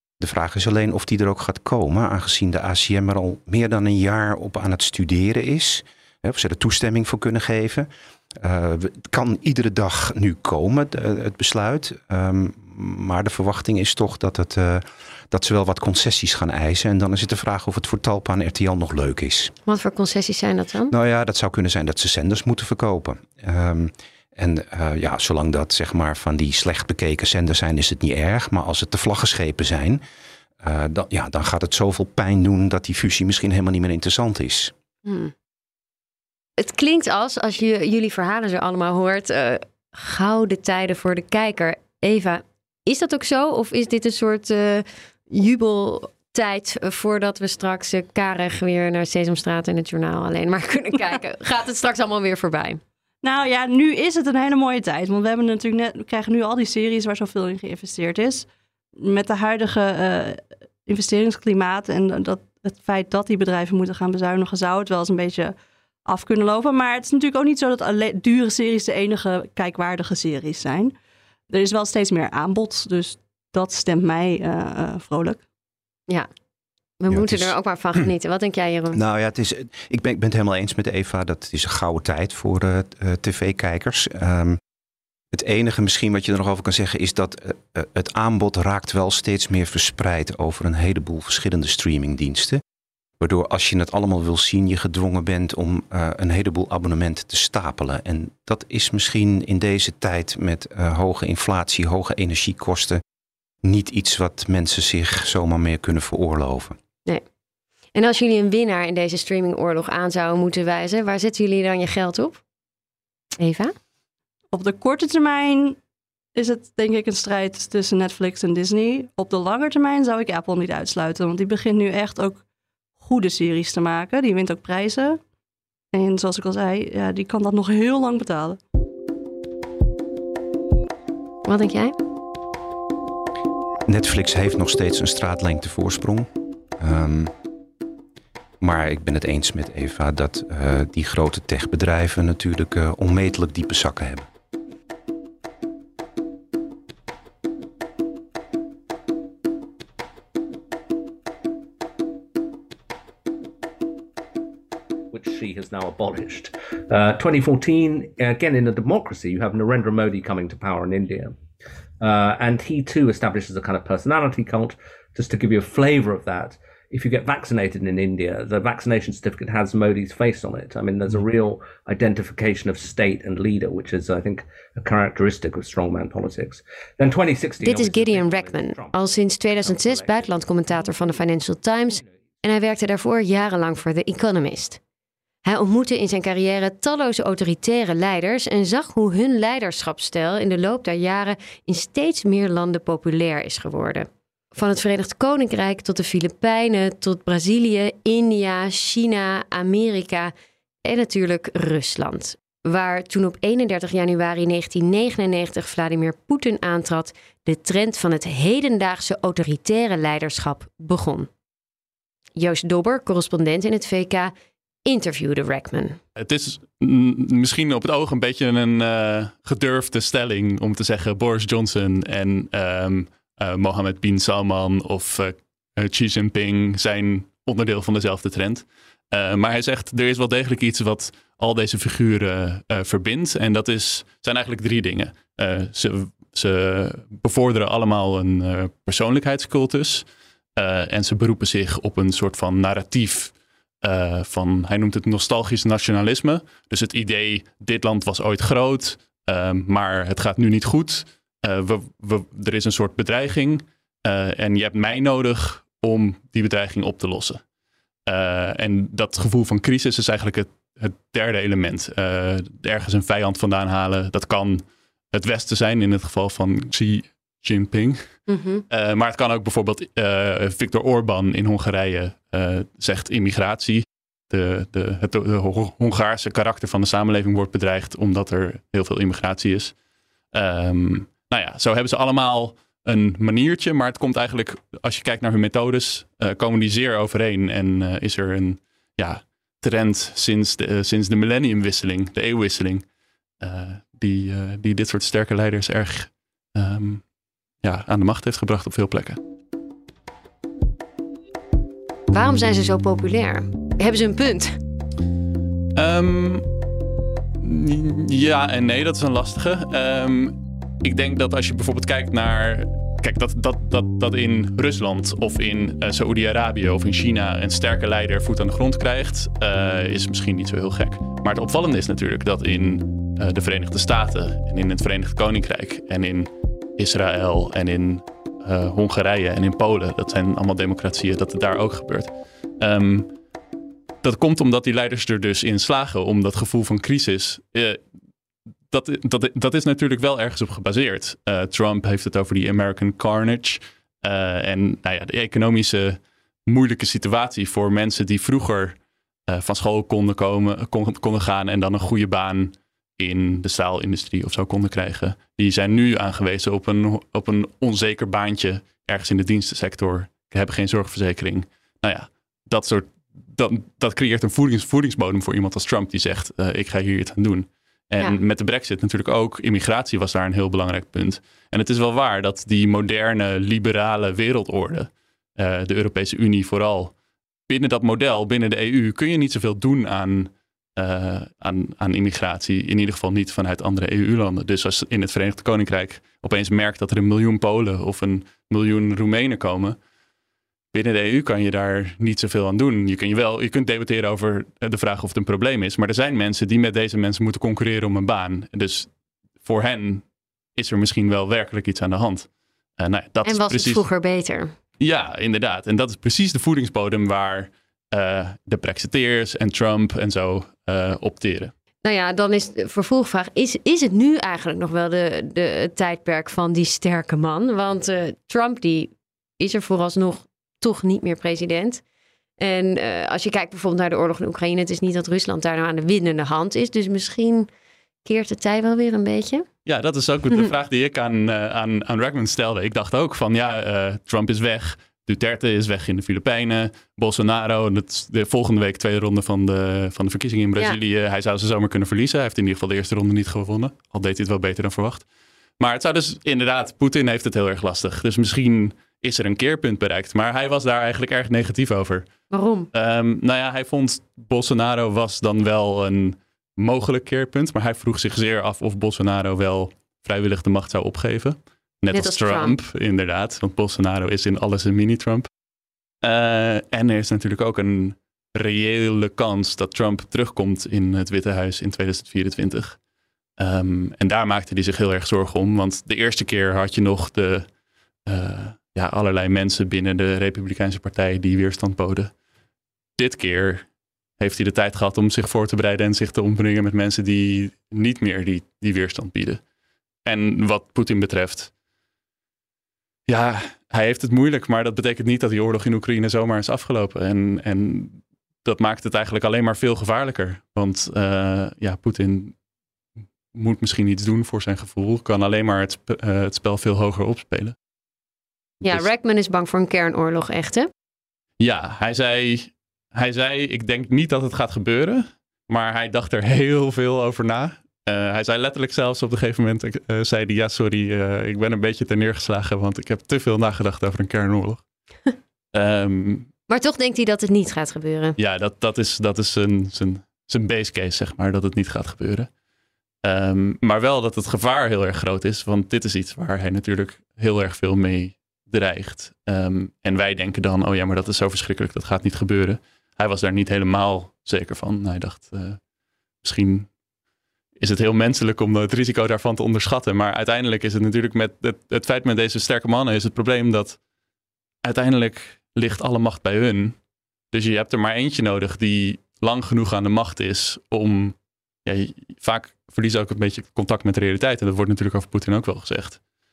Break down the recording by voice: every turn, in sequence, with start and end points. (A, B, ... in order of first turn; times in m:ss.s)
0:00.2-0:19.5 A
0:19.6-0:20.9 B
0:20.9-0:30.0 A
0:30.6-0:34.7 A
0:35.0-0:35.3 B
0:36.6-0:52.8 B
0:53.2-1:05.5 C
1:06.0-1:10.9 C
1:11.5-1:15.4 C
1:17.0-1:19.0 B
1:17.1-1:17.5 A
1:18.9-1:24.6 A
1:25.3-1:32.6 A
1:33.2-1:43.0 A
1:43.6-1:46.8 A
1:48.0-1:52.4 B
1:53.4-1:53.8 B
1:54.5-1:55.8 C
1:56.4-2:02.4 C
2:03.0-2:05.2 C
2:05.9-2:08.6 C
2:11.5-2:12.0 B
2:13.9-2:16.3 A
2:16.8-2:17.3 A
2:18.6-2:24.3 A
2:35.1-2:41.4 D
2:42.0-3:00.3 D
2:57.6-3:04.8 B
3:05.4-3:20.3 B
3:20.8-3:31.3 B
3:32.4-3:34.3 B
3:34.9-3:36.0 B
3:36.2-4:00.0 E
4:00.6-4:17.4 E
4:18.0-4:28.1 E
4:28.3-4:28.6 B
4:28.7-4:39.7 E
4:40.3-4:52.8 E
4:53.4-4:57.0 E
4:57.6-4:59.2 E
5:02.1-5:04.6 B
5:05.7-5:06.4 E
5:07.4-5:33.1 E
5:34.0-5:37.8 E
5:38.7-6:16.9 E
6:17.5-6:29.8 E
6:30.7-6:38.9 E
6:39.4-6:43.8 E
6:43.2-6:44.6 B
6:44.8-6:51.5 E
6:51.8-7:01.8 B
7:02.4-7:07.5 B
7:08.0-7:09.4 B
7:09.6-7:25.0 E
7:25.6-7:32.1 E
7:32.3-7:32.7 B
7:32.7-7:45.3 E
7:41.9-7:42.6 B
7:46.0-7:52.8 E
7:53.4-7:57.5 E
7:58.1-8:02.1 E
8:03.0-8:03.6 E
8:04.2-8:09.4 E
8:10.0-8:11.5 E
8:13.1-8:22.4 E
8:23.3-8:27.6 E
8:28.6-8:30.7 B
8:31.4-8:44.6 E
8:45.5-8:46.3 E
8:46.5-8:48.2 B
8:48.2-8:52.3 E
8:53.0-9:05.6 E
9:06.2-9:06.7 E
9:07.6-9:13.8 E
9:14.6-9:16.8 E
9:17.3-9:26.0 E